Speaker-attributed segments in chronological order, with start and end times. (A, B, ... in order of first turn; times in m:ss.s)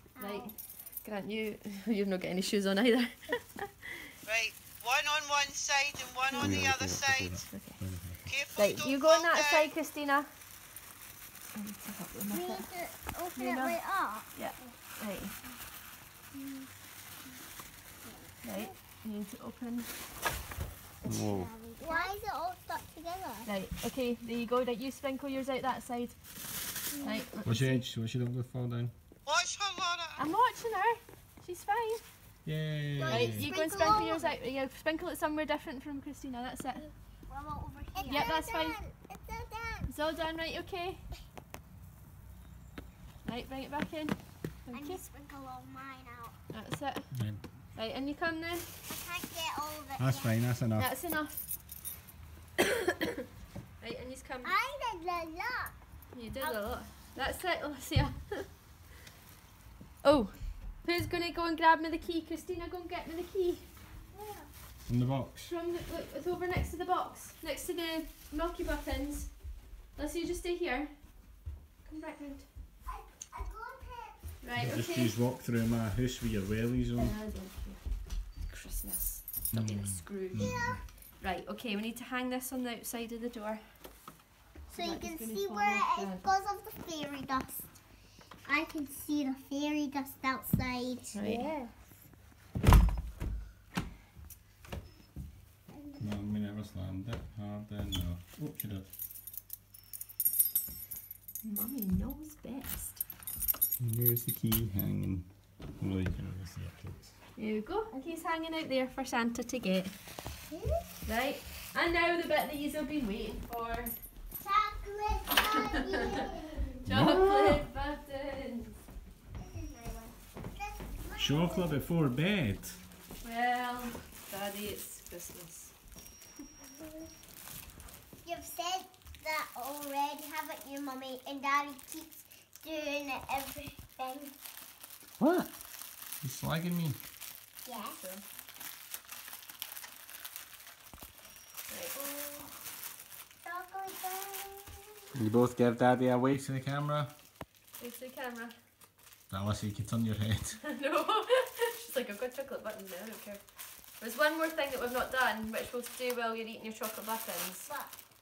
0:00.2-0:00.5 A
0:00.2-0:04.1 B
0:04.2-0:07.4 C
0:06.3-0:06.7 B
0:06.4-0:08.2 D
0:07.5-0:10.3 B
0:08.3-0:09.7 C
0:11.5-0:12.7 B
0:12.3-0:14.6 A
0:13.4-0:15.4 B
0:16.4-0:16.7 A
0:18.0-0:18.7 A
0:18.4-0:19.9 B
0:21.0-0:21.5 D
0:21.3-0:23.5 A
0:23.4-0:26.2 B
0:27.0-0:27.2 A
0:27.0-0:27.8 B
0:27.4-0:28.9 D
0:29.3-0:30.2 C
0:30.2-0:32.0 B
0:32.4-0:33.5 D
0:33.0-0:34.3 A
0:33.1-0:36.8 B
0:37.3-0:39.9 A
0:38.1-0:38.8 B
0:39.9-0:41.0 B
0:43.2-0:45.0 B
0:44.7-0:46.4 A
0:46.5-0:47.1 B
0:47.1-0:47.4 D
0:47.8-0:48.7 B
0:48.9-0:50.4 A
0:50.0-0:50.9 D
0:50.8-0:51.5 B
0:53.8-0:54.6 B
0:54.4-0:55.7 A
0:56.1-0:58.5 B
1:00.0-1:03.7 B
1:04.1-1:04.5 A
1:04.9-1:05.5 D
1:05.4-1:09.4 B
1:10.0-1:11.2 B
1:11.8-1:12.5 B
1:12.8-1:14.2 A
1:14.4-1:15.2 B
1:14.6-1:17.2 D
1:17.0-1:17.8 B
1:18.4-1:23.8 B
1:19.5-1:20.8 D
1:20.4-1:20.8 A
1:24.7-1:27.7 A
1:24.7-1:26.2 B
1:28.4-1:31.5 A
1:31.1-1:31.5 B
1:36.0-1:38.9 D
1:41.4-1:43.0 B
1:43.8-1:45.3 D
1:45.8-1:47.2 D
1:47.4-1:49.9 B
1:50.5-1:50.8 A
1:51.0-1:53.9 B
1:54.4-1:56.8 A
1:56.8-1:57.6 D
1:56.8-1:58.8 B
1:59.4-2:01.7 A
2:01.2-2:02.8 D
2:03.2-2:05.7 B
2:06.7-2:07.1 A
2:08.2-2:14.3 A
2:15.2-2:15.5 D
2:16.2-2:17.0 D
2:17.6-2:18.0 A
2:17.7-2:18.2 B
2:21.7-2:22.0 B
2:22.0-2:22.5 A
2:23.4-2:25.0 A
2:25.2-2:27.1 D
2:27.8-2:28.6 B
2:29.3-2:30.6 D
2:30.6-2:33.4 B
2:34.0-2:37.7 B
2:37.7-2:37.9 A